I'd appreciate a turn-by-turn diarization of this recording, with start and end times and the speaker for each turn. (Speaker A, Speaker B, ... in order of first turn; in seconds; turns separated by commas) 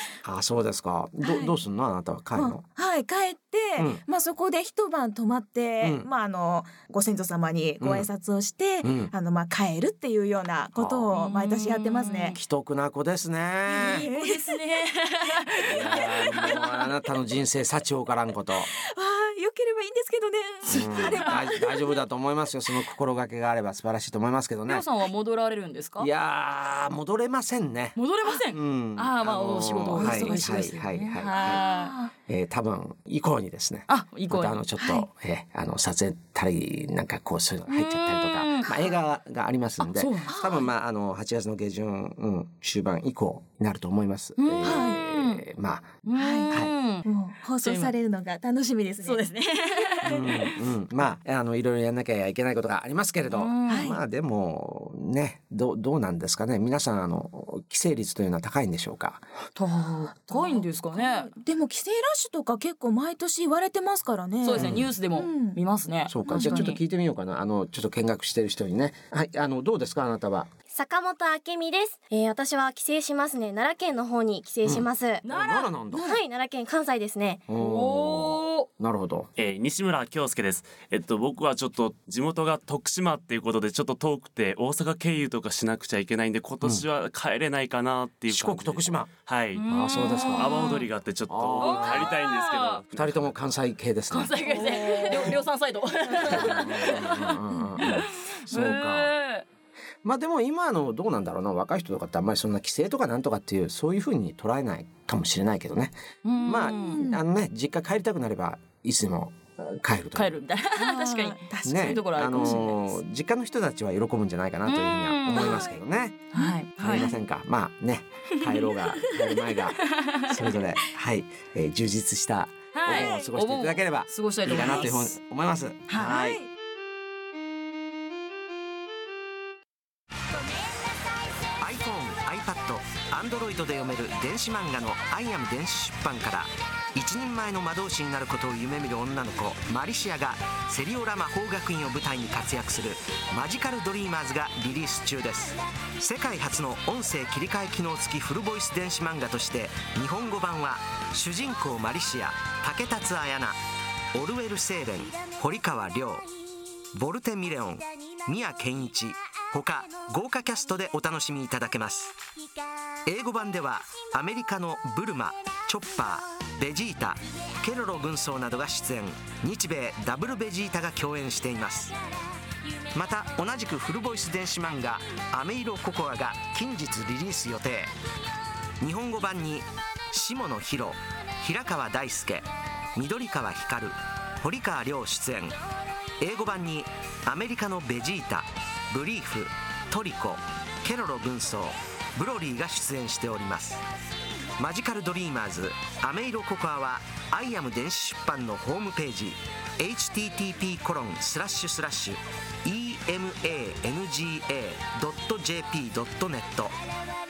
Speaker A: 0.2-2.6, Speaker B: 1.2-1.6, Speaker B: 2.4-12.4, Speaker A: 5.8-6.1, Speaker A: 7.8-8.1, Speaker A: 8.8-9.1, Speaker A: 10.8-11.1, Speaker C: 11.1-12.3, Speaker A: 12.3-14.1, Speaker C: 13.7-16.9, Speaker B: 13.8-14.5, Speaker A: 15.7-18.7, Speaker B: 18.7-22.0, Speaker A: 20.7-24.9, Speaker C: 24.7-26.1, Speaker A: 26.0-28.0, Speaker C: 27.9-32.0, Speaker A: 28.5-31.6, Speaker B: 29.8-30.6, Speaker B: 31.4-32.1, Speaker A: 32.3-46.0, Speaker C: 33.9-35.0, Speaker C: 37.7-38.9, Speaker C: 39.8-40.4, Speaker B: 40.3-40.6, Speaker C: 44.4-45.4, Speaker B: 44.6-45.0, Speaker C: 46.0-47.9, Speaker B: 46.1-49.3, Speaker C: 49.0-50.5, Speaker A: 50.0-59.2, Speaker C: 53.3-53.9, Speaker B: 53.7-54.0, Speaker C: 59.6-61.3, Speaker B: 60.3-65.6, Speaker C: 64.4-66.8, Speaker A: 64.6-64.9, Speaker A: 66.1-70.5, Speaker B: 66.3-66.7, Speaker D: 70.7-75.2, Speaker A: 74.6-76.1, Speaker C: 75.2-76.2, Speaker D: 76.0-77.4, Speaker A: 77.5-79.3, Speaker C: 77.5-78.7, Speaker E: 79.4-93.4, Speaker A: 88.3-89.1, Speaker C: 89.5-90.9, Speaker A: 89.7-90.6, Speaker A: 91.3-92.2, Speaker C: 91.6-92.8, Speaker A: 92.9-94.4, Speaker C: 94.1-99.5, Speaker B: 94.6-95.3, Speaker A: 96.2-99.1, Speaker A: 100.0-110.4, Speaker C: 106.2-107.1, Speaker B: 106.8-107.2, Speaker C: 110.2-113.0, Speaker B: 110.8-112.6, Speaker A: 111.7-116.3, Speaker C: 114.7-115.8, Speaker B: 115.3-115.7, Speaker C: 116.3-117.1, Speaker B: 116.3-117.2, Speaker A: 116.8-126.4, Speaker C: 118.4-120.6, Speaker C: 122.7-125.2, Speaker B: 122.9-123.3, Speaker B: 124.5-124.9, Speaker C: 125.9-126.2, Speaker B: 126.0-126.5, Speaker A: 131.6-153.6, Speaker A: 154.1-156.3, Speaker A: 156.9-162.2, Speaker A: 163.1-171.9, Speaker A: 172.9-177.9, Speaker A: 178.8-185.6, Speaker A: 186.2-193.8, Speaker A: 194.6-206.8